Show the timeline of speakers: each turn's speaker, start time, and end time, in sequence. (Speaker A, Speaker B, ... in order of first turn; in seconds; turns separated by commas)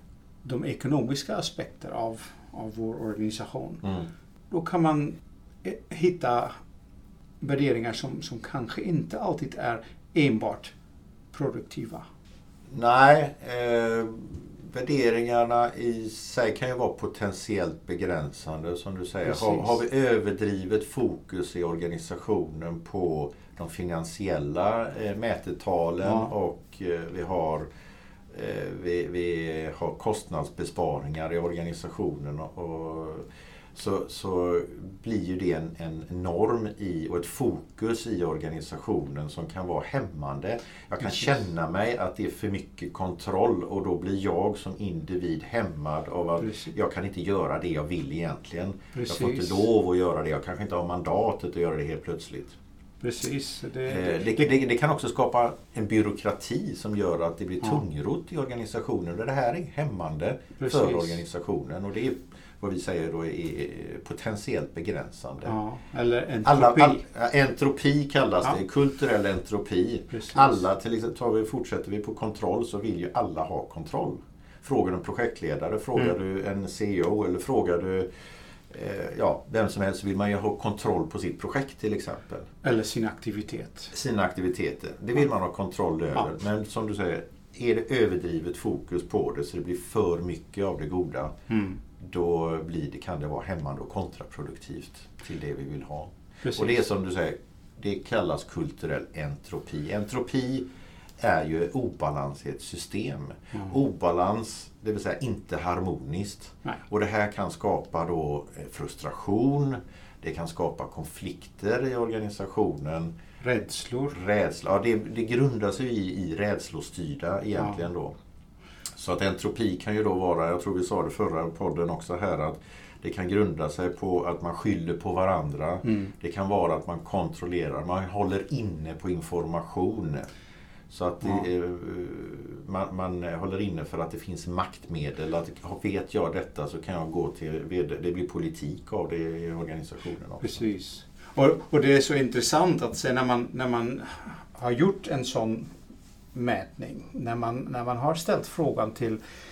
Speaker A: 0.4-3.9, Speaker A: 4.5-6.5, Speaker A: 7.4-10.7, Speaker A: 11.3-12.1, Speaker B: 12.7-27.7, Speaker A: 19.2-19.7, Speaker A: 26.0-26.3, Speaker B: 28.3-52.5, Speaker A: 41.0-41.3, Speaker A: 46.4-46.7, Speaker A: 48.9-49.6, Speaker A: 53.0-54.5, Speaker B: 53.9-65.5, Speaker A: 60.6-61.2, Speaker A: 65.4-67.0, Speaker B: 66.4-78.1, Speaker A: 70.1-70.6, Speaker B: 78.7-82.5, Speaker A: 82.6-83.9, Speaker B: 83.9-91.3, Speaker A: 91.5-91.8, Speaker B: 92.0-100.7, Speaker A: 96.4-96.8, Speaker B: 101.2-113.1, Speaker A: 113.4-114.2, Speaker B: 114.1-118.2, Speaker A: 117.6-117.8, Speaker B: 119.0-130.3, Speaker A: 125.8-126.1, Speaker B: 130.9-140.6, Speaker A: 140.4-145.7, Speaker A: 146.3-149.2